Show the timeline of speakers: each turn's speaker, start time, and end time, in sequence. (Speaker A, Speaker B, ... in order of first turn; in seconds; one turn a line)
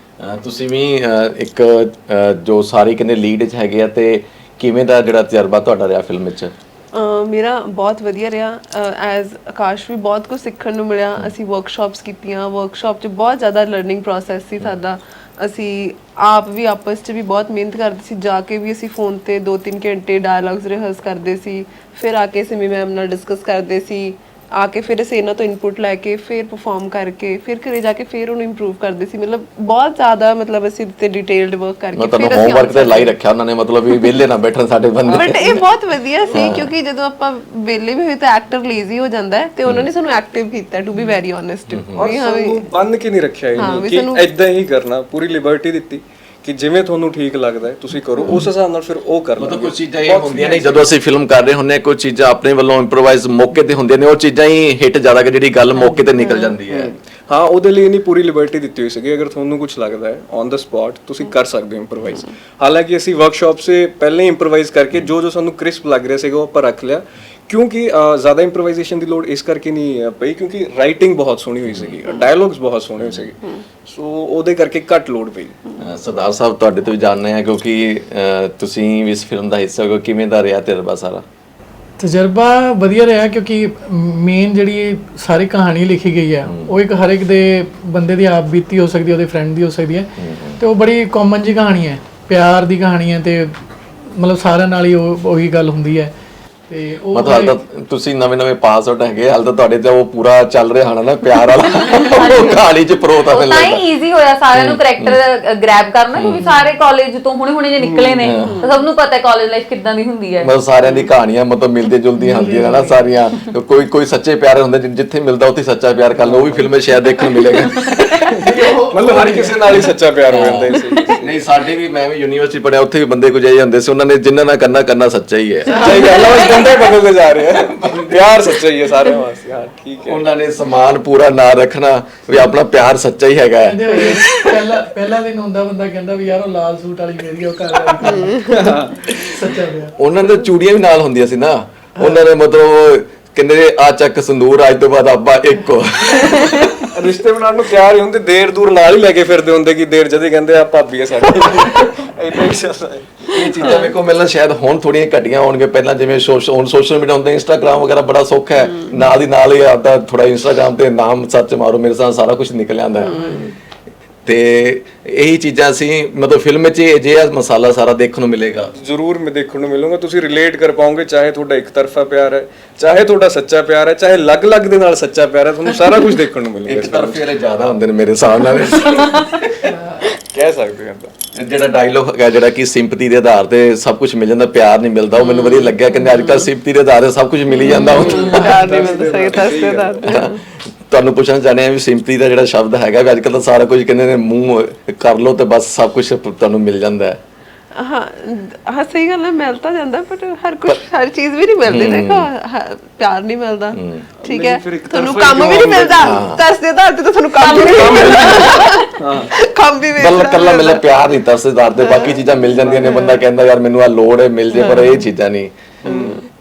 Speaker A: 0.2-6.5
Speaker B: 6.9-33.1
Speaker A: 32.0-35.6
Speaker C: 35.1-35.6
Speaker B: 35.1-42.7
Speaker A: 36.3-36.7
Speaker A: 41.7-42.1
Speaker C: 41.9-50.9
Speaker B: 43.6-44.3
Speaker A: 49.4-56.9
Speaker D: 55.8-56.0
Speaker C: 56.7-75.6
Speaker A: 71.7-72.0
Speaker A: 73.0-73.3
Speaker A: 75.8-81.2
Speaker E: 82.0-93.5
Speaker A: 86.5-86.7
Speaker A: 90.2-90.6
Speaker E: 94.1-96.1
Speaker E: 96.7-97.6
Speaker A: 97.1-103.8
Speaker D: 101.8-102.6
Speaker D: 103.3-110.5
Speaker A: 104.5-105.2
Speaker A: 106.1-106.5
Speaker C: 107.8-108.3
Speaker A: 108.2-108.7
Speaker B: 108.4-108.8
Speaker A: 110.4-118.2
Speaker E: 112.2-113.1
Speaker C: 116.2-116.7
Speaker C: 118.3-121.3
Speaker E: 118.4-119.6
Speaker A: 119.8-126.0
Speaker E: 125.7-126.4
Speaker C: 125.8-130.3
Speaker A: 127.5-128.6
Speaker A: 130.0-134.2
Speaker E: 133.7-139.9
Speaker C: 138.3-139.1
Speaker A: 140.0-146.8
Speaker C: 146.9-153.9
Speaker A: 153.3-163.3
Speaker B: 163.1-163.5
Speaker A: 164.2-168.7
Speaker C: 168.8-177.2
Speaker A: 176.7-179.7
Speaker E: 179.7-180.0
Speaker C: 180.3-181.1
Speaker A: 181.3-188.5
Speaker C: 187.7-190.1
Speaker B: 187.7-190.4
Speaker A: 190.0-190.3
Speaker A: 190.9-197.2
Speaker B: 197.7-210.8
Speaker A: 201.7-202.3
Speaker A: 203.8-204.1
Speaker C: 204.2-206.2
Speaker A: 206.0-206.4
Speaker C: 207.4-209.3
Speaker D: 207.6-208.7
Speaker A: 210.0-215.5
Speaker B: 211.8-213.2
Speaker C: 212.7-213.0
Speaker B: 214.5-215.1
Speaker C: 215.8-216.2
Speaker B: 215.8-216.2